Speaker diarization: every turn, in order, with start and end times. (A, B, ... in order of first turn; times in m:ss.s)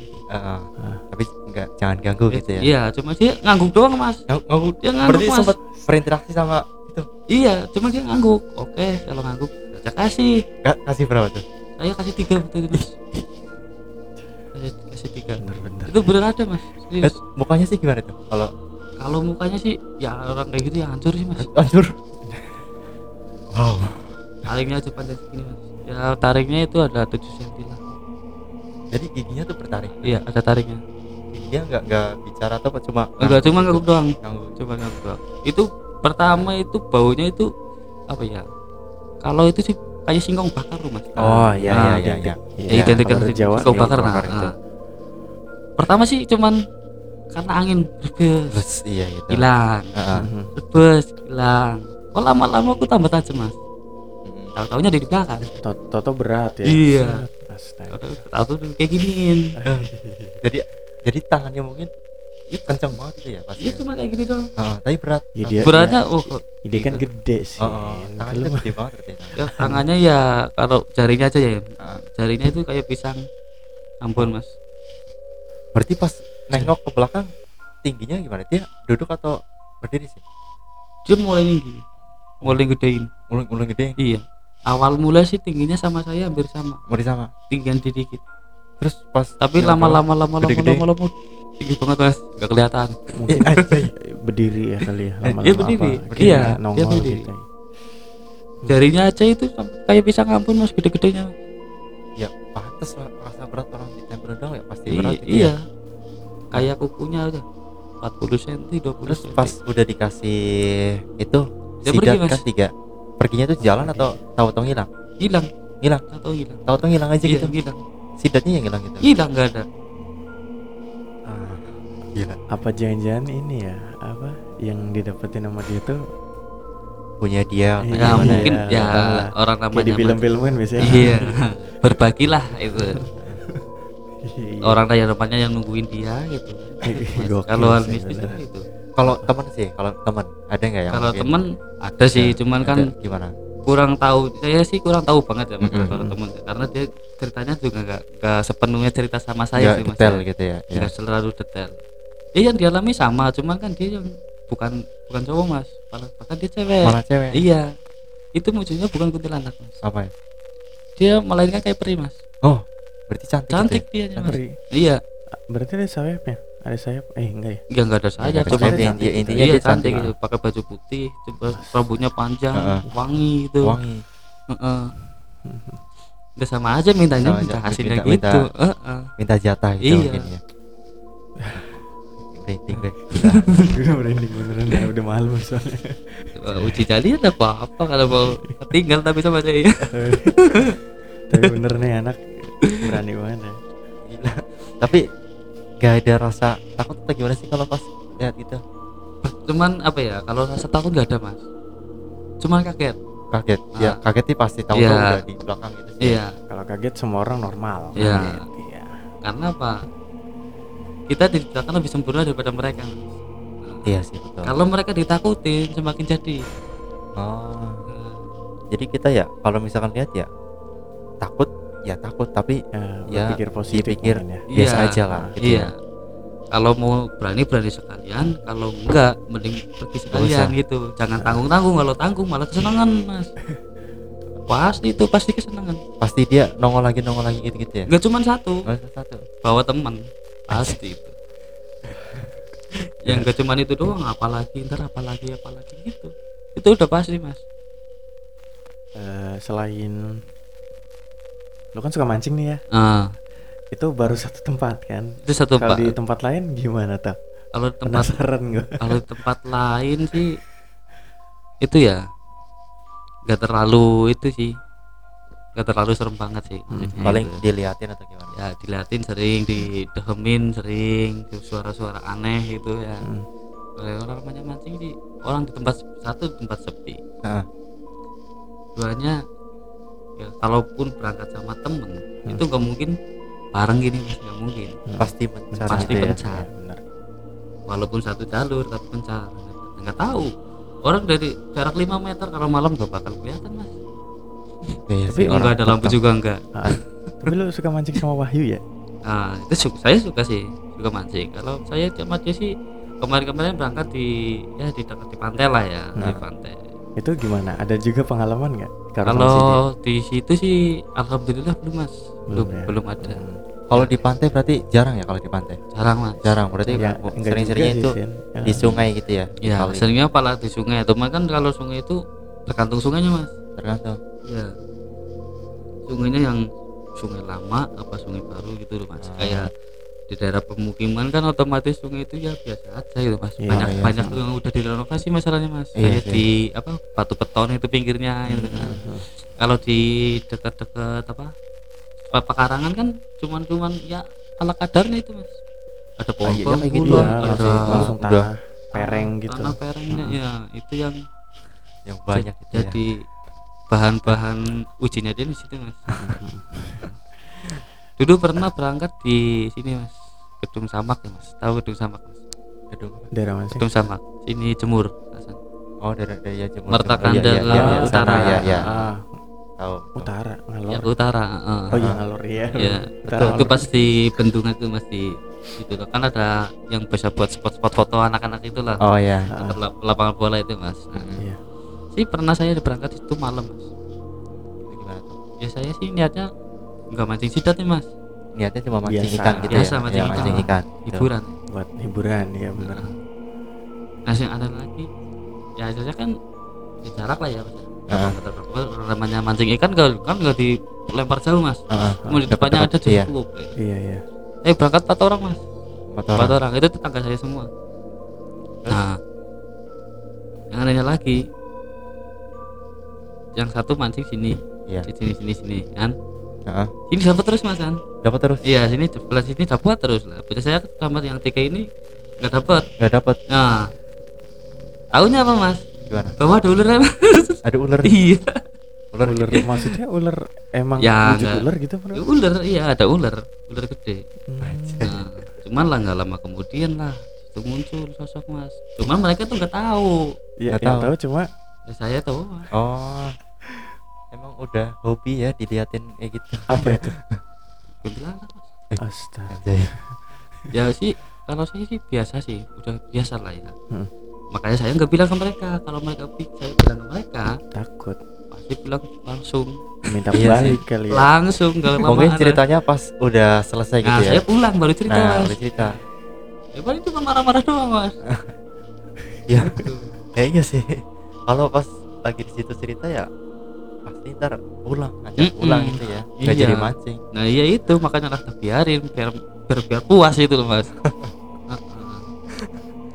0:00.3-0:02.7 A
0:02.3-0:04.2 B
0:04.3-0:07.1 A
0:04.8-0:05.5 B
0:07.3-0:10.4 B
0:10.6-0:11.4 A
0:11.8-0:12.9 B
0:14.5-0:17.2 B
0:15.4-0:16.0 C
0:17.0-0:18.5 A
0:19.0-0:21.5 B
0:21.4-0:21.9 A
0:22.3-0:22.6 C
0:23.5-0:24.2 A
0:24.4-0:27.9 B
0:28.9-0:30.2 A
0:30.0-0:30.8 B
0:31.3-0:34.5 A
0:33.2-0:37.5 B
0:38.1-0:38.4 B
0:39.2-0:42.0 B
0:41.2-0:44.5 A
0:41.2-0:44.2 C
0:42.7-0:44.5 B
0:45.8-0:46.6 B
0:47.3-0:48.6 B
0:48.5-0:50.3 A
0:49.3-0:49.9 B
0:50.2-0:50.5 C
0:50.5-0:53.6 B
0:54.2-0:54.5 A
0:54.6-0:55.4 B
0:55.6-0:58.2 C
0:56.6-0:57.2 B
0:57.9-0:59.5 B
0:59.6-1:00.4 C
0:59.6-0:59.9 A
1:00.4-1:01.9 A
1:02.5-1:02.9 B
1:02.7-1:03.8 A
1:03.6-1:04.5 B
1:04.6-1:05.7 A
1:05.4-1:06.0 C
1:05.6-1:07.0 B
1:06.6-1:08.7 C
1:07.6-1:09.4 A
1:09.4-1:11.6 B
1:12.1-1:13.2 B
1:14.0-1:14.5 B
1:15.7-1:17.3 A
1:17.8-1:20.2 A
1:21.0-1:21.8 B
1:22.4-1:23.1 B
1:23.3-1:24.0 A
1:24.0-1:26.8 B
1:26.9-1:27.3 A
1:27.5-1:28.2 B
1:28.8-1:30.8 A
1:29.4-1:33.6 B
1:33.2-1:37.4 C
1:33.4-1:33.9 A
1:35.2-1:36.5 A
1:35.4-1:37.3 B
1:38.7-1:41.3 B
1:42.2-1:45.5 A
1:44.9-1:45.6 B
1:46.5-1:47.4 B
1:48.0-1:49.5 B
1:49.1-1:54.9 A
1:51.8-1:52.4 B
1:53.6-1:54.2 C
1:55.2-1:55.5 B
1:56.1-1:56.6 B
1:56.7-1:57.5 A
1:57.2-1:57.8 B
1:58.2-1:59.0 A
1:59.0-1:59.6 B
2:01.3-2:02.4 A
2:02.5-2:06.0 C
2:07.2-2:08.6 A
2:07.8-2:11.3 C
2:08.0-2:10.2 B
2:10.8-2:13.0 B
2:10.9-2:11.2 A
2:12.8-2:13.7 C
2:14.2-2:14.8 C
2:14.6-2:18.6 B
2:16.8-2:18.4 C
2:19.0-2:21.3 A
2:20.9-2:22.9 B
2:22.1-2:23.3 A
2:23.6-2:30.2 B
2:25.6-2:26.0 A
2:25.9-2:26.2 C
2:29.6-2:30.9 A
2:30.7-2:31.8 B
2:32.3-2:37.7 B
2:36.8-2:37.4 A
2:38.4-2:39.8 B
2:39.8-2:40.1 A
2:41.0-2:42.2 B
2:42.4-2:44.4 A
2:43.5-2:45.0 B
2:44.2-2:44.6 C
2:45.5-2:47.6 C
2:47.7-2:53.8 B
2:48.2-2:50.1 A
2:48.5-2:50.1 C
2:51.4-2:52.0 C
2:52.5-2:52.8 A
2:53.6-2:54.0 A
2:54.5-2:54.9 B
2:55.4-2:55.8 C
2:56.4-2:59.1 B
2:57.2-2:58.5 A
2:59.2-3:00.4 A
2:59.8-3:00.3 B
3:01.4-3:01.6 C
3:02.4-3:03.5 A
3:03.1-3:03.7 B
3:03.6-3:06.8 C
3:06.3-3:10.7 B
3:09.9-3:10.8 C
3:11.3-3:13.5 C
3:14.1-3:15.0 A
3:15.8-3:18.6 A
3:19.2-3:21.4 B
3:22.4-3:23.0 B
3:23.3-3:26.2 A
3:24.7-3:25.2 B
3:26.0-3:26.3 B
3:26.5-3:29.0 C
3:28.0-3:28.4 B
3:29.2-3:29.8 B
3:31.1-3:33.9 B
3:33.8-3:34.5 A
3:34.4-3:36.4 B
3:37.2-3:37.8 A
3:37.9-3:38.2 B
3:38.7-3:40.3 A
3:41.2-3:42.6 A
3:42.7-3:44.4 C
3:43.1-3:45.7 A
3:44.5-3:45.7 B
3:45.1-3:45.3 C
3:46.5-3:53.3 B
3:50.1-3:50.5 A
3:51.2-3:51.4 C
3:54.5-3:55.8 B
3:56.0-3:57.9 A
3:57.9-3:58.7 B
3:58.6-3:59.2 A
3:59.4-4:01.1 B
4:01.9-4:02.2 A
4:03.0-4:07.4 B
4:09.0-4:10.2 C
4:11.7-4:12.6 C
4:12.7-4:13.1 B
4:13.7-4:17.2 C
4:15.2-4:15.9 B
4:17.5-4:18.2 B
4:17.8-4:19.0 C
4:18.8-4:20.4 B
4:21.6-4:22.0 B
4:23.3-4:24.5 B
4:25.6-4:27.4 B
4:26.7-4:27.2 C
4:27.0-4:28.3 A
4:28.3-4:33.0 B
4:33.8-4:37.0 B
4:38.8-4:39.2 B
4:40.2-4:42.9 B
4:43.5-4:44.8 B
4:44.9-4:46.8 C
4:45.0-4:46.2 A
4:45.7-4:46.5 B
4:47.7-4:50.3 B
4:50.8-4:53.7 B
4:54.9-4:56.0 A
4:55.1-4:55.5 C
4:55.3-4:57.3 B
4:56.5-4:58.6 C
4:59.0-5:06.6 B
5:07.0-5:09.5 C
5:09.0-5:13.2 B
5:12.3-5:13.4 C
5:13.7-5:15.6 A
5:15.7-5:16.8 B
5:16.2-5:19.9 A
5:16.7-5:18.9 C
5:19.4-5:23.3 B
5:23.6-5:24.0 A
5:24.2-5:24.5 B
5:25.9-5:26.4 B
5:27.0-5:29.5 B
5:29.0-5:29.5 A
5:30.1-5:38.8 B
5:33.4-5:34.2 C
5:33.5-5:33.9 A
5:35.8-5:36.2 A
5:38.3-5:38.7 A
5:38.6-5:39.0 C
5:39.4-5:41.3 B
5:42.1-5:45.4 B
5:46.0-5:47.9 B
5:46.2-5:48.3 A
5:46.9-5:50.2 C
5:48.7-5:51.0 B
5:51.8-5:52.8 A
5:52.1-5:53.0 B
5:53.7-5:55.8 B
5:56.0-5:56.9 C
5:58.0-6:02.2 B
6:02.7-6:03.1 A
6:03.1-6:03.6 C
6:03.5-6:05.4 B
6:05.8-6:08.7 A
6:06.7-6:08.9 B
6:07.5-6:09.2 C
6:09.6-6:10.1 A
6:10.0-6:10.9 C
6:10.7-6:11.8 B
6:11.7-6:13.7 C
6:12.6-6:18.8 B
6:13.1-6:13.5 A
6:18.8-6:19.3 A
6:19.3-6:19.6 C
6:19.3-6:21.1 B
6:20.9-6:21.2 A
6:21.9-6:23.7 B
6:24.7-6:25.2 A
6:25.4-6:26.3 B
6:26.9-6:27.9 B
6:28.3-6:31.1 A
6:28.8-6:30.5 C
6:29.3-6:31.4 B
6:31.5-6:32.9 C
6:32.6-6:33.0 B
6:34.1-6:34.9 B
6:35.6-6:36.1 B
6:36.8-6:43.5 B
6:37.9-6:38.2 A
6:41.7-6:43.1 A
6:43.6-6:44.0 C
6:44.4-6:45.4 B
6:45.9-6:46.4 A
6:46.1-6:47.5 B
6:48.7-6:49.0 B
6:50.5-6:51.2 B
6:53.4-6:56.0 B
6:56.5-6:56.7 A
6:56.9-6:57.8 B
6:58.0-6:58.4 A
6:58.4-7:01.7 B
7:02.2-7:02.7 B
7:02.8-7:03.2 A
7:03.3-7:03.7 B
7:04.9-7:08.4 B
7:05.9-7:06.1 A
7:07.4-7:08.0 A
7:08.9-7:09.5 A
7:09.0-7:12.0 C
7:09.3-7:09.7 B
7:10.8-7:14.0 B
7:14.3-7:15.1 C
7:14.4-7:14.9 A
7:14.8-7:20.1 B
7:20.4-7:21.3 C
7:20.5-7:20.9 A
7:21.7-7:22.5 B
7:22.5-7:23.2 A
7:24.1-7:27.2 A
7:26.5-7:27.0 C
7:27.8-7:28.5 B
7:28.7-7:29.7 A
7:28.8-7:29.8 C
7:30.5-7:33.5 B
7:34.3-7:37.4 B
7:37.5-7:38.0 C
7:38.3-7:42.4 B
7:39.9-7:41.1 C
7:40.2-7:40.6 A
7:41.8-7:44.2 A
7:43.8-7:45.8 B
7:44.9-7:45.8 A
7:46.5-7:48.0 B
7:49.1-7:49.6 C
7:49.3-7:49.6 A
7:49.4-7:49.9 B
7:50.1-7:53.1 A
7:53.8-7:57.0 A
7:55.2-8:00.7 B
8:01.5-8:02.1 B